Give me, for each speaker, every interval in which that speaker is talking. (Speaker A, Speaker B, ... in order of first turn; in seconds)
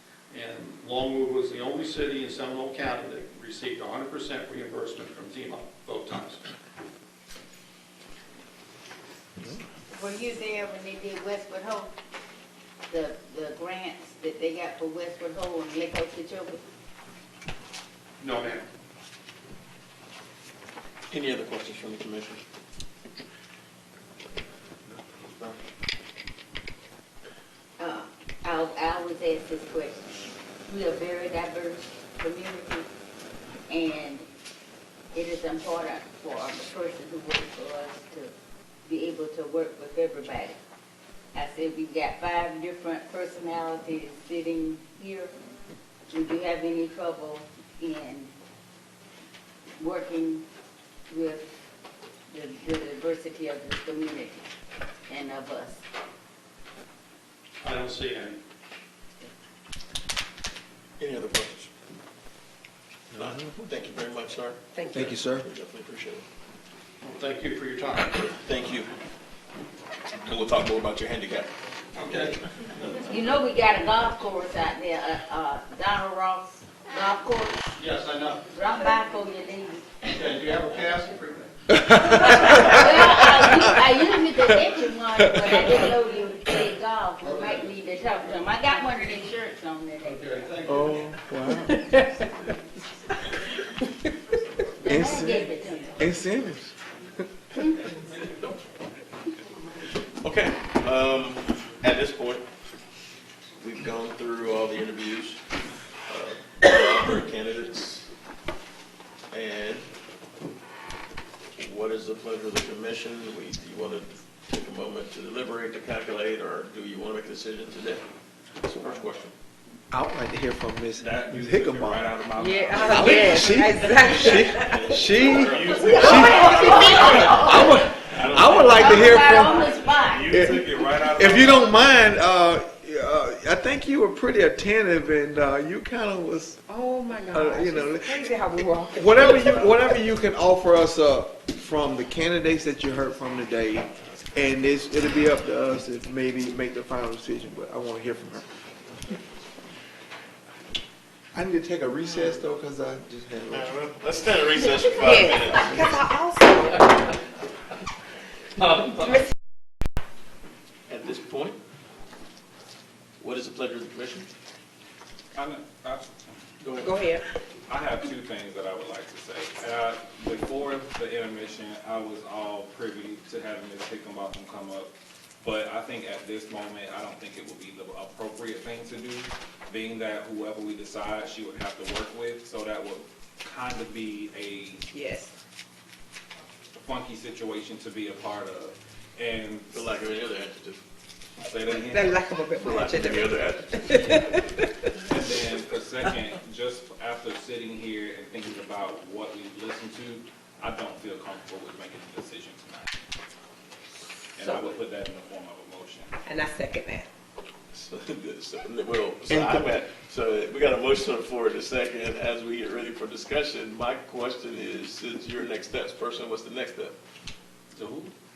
Speaker A: 0.3-6.4, 18.2-18.6, 57.6-58.4, 67.0-68.3, 71.9-73.0, 77.7-78.5, 80.0-81.5, 87.2-87.8, 90.0-91.1
Speaker B: 9.9-11.9, 12.9-16.6, 27.8-30.1, 30.6-32.9, 33.7-34.2, 35.1-38.3, 38.8-40.6, 41.3-45.3, 46.1-48.3, 49.8-50.5, 51.1-51.5, 52.3-54.5, 55.1-55.8, 73.1-77.6, 78.5-80.1, 82.0-90.3, 94.8-96.0, 125.9-127.8, 128.7-130.3
Speaker C: 21.1-22.4, 61.0-61.7, 63.1-64.6, 65.2-66.2, 68.2-68.9, 70.2-71.5, 100.2-102.5, 103.6-105.4, 106.1-108.1, 109.3-109.9, 111.6-118.0, 118.6-119.3, 124.0-127.0, 128.0-130.0, 144.0-144.3, 153.5-156.0, 160.9-161.6, 163.2-164.3, 166.6-167.0, 189.7-190.8, 192.6-194.2, 207.7-216.9
Speaker D: 63.1-63.5, 64.9-65.5, 81.7-82.7, 90.7-91.8, 94.8-96.8, 119.9-122.1, 122.8-129.7, 130.3-136.6, 137.3-148.4, 151.3-153.7, 209.3-209.7
Speaker E: 64.7-65.2, 122.4-124.9, 126.4-127.6, 136.7-139.8, 154.6-156.9, 166.8-167.2, 184.9-185.3, 191.7-195.1, 206.2-207.1
Speaker F: 121.0-124.5, 125.3-127.6, 128.2-131.9, 165.3-166.3, 167.7-184.8, 186.8-189.9, 191.4-192.2, 195.1-202.9, 204.3-206.1, 217.7-218.1